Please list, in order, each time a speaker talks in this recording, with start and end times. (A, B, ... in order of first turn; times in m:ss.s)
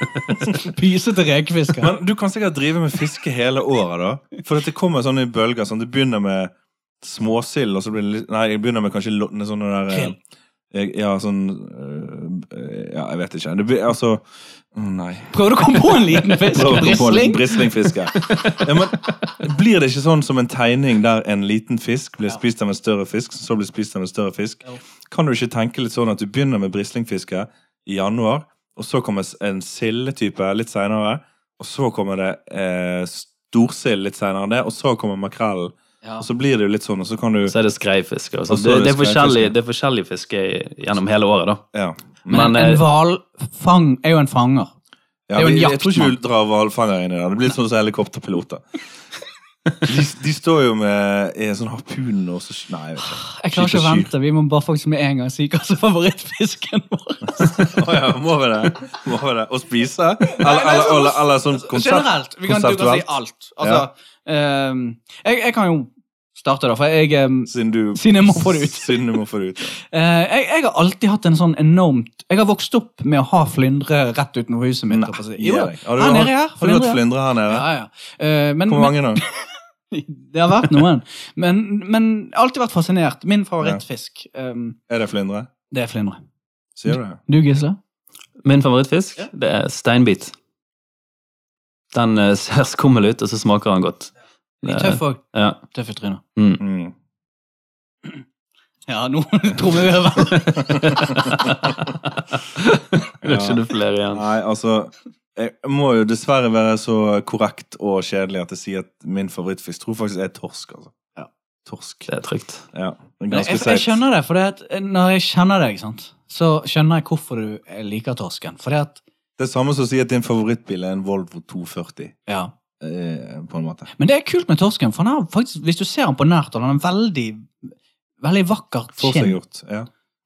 0:00.2-0:01.9 A
0:01.8-0:10.2 B
0:09.9-0:10.2 A
0:10.7-0:15.4 B
0:15.3-0:18.7 A
0:16.1-0:37.6 B
0:37.5-0:41.6 C
0:38.5-0:39.5 B
0:41.7-0:42.5 B
0:42.3-0:42.8 C
0:42.3-0:44.7 A
0:45.3-0:48.6 B
0:45.4-0:46.2 A
0:49.8-0:54.1 B
0:53.0-0:57.8 A
0:57.3-1:03.9 B
1:00.3-1:09.0 A
1:07.5-1:09.8 B
1:09.8-1:24.8 A
1:14.9-1:17.7 B
1:18.7-1:19.2 B
1:24.9-1:25.5 B
1:25.7-1:26.2 A
1:26.8-1:27.2 B
1:26.9-1:27.8 A
1:28.4-1:30.3 C
1:31.9-1:34.1 C
1:34.6-1:35.6 C
1:34.6-1:36.2 A
1:36.4-1:36.6 C
1:36.6-1:36.9 B
1:38.9-1:41.5 A
1:40.5-1:44.2 C
1:43.2-1:43.6 B
1:44.1-1:50.9 B
1:51.7-1:52.1 B
1:52.1-1:52.7 C
1:52.7-1:54.0 B
1:53.3-1:59.0 A
1:59.4-2:02.2 B
2:02.3-2:02.5 A
2:02.8-2:03.9 B
2:04.0-2:09.4 A
2:09.0-2:09.9 B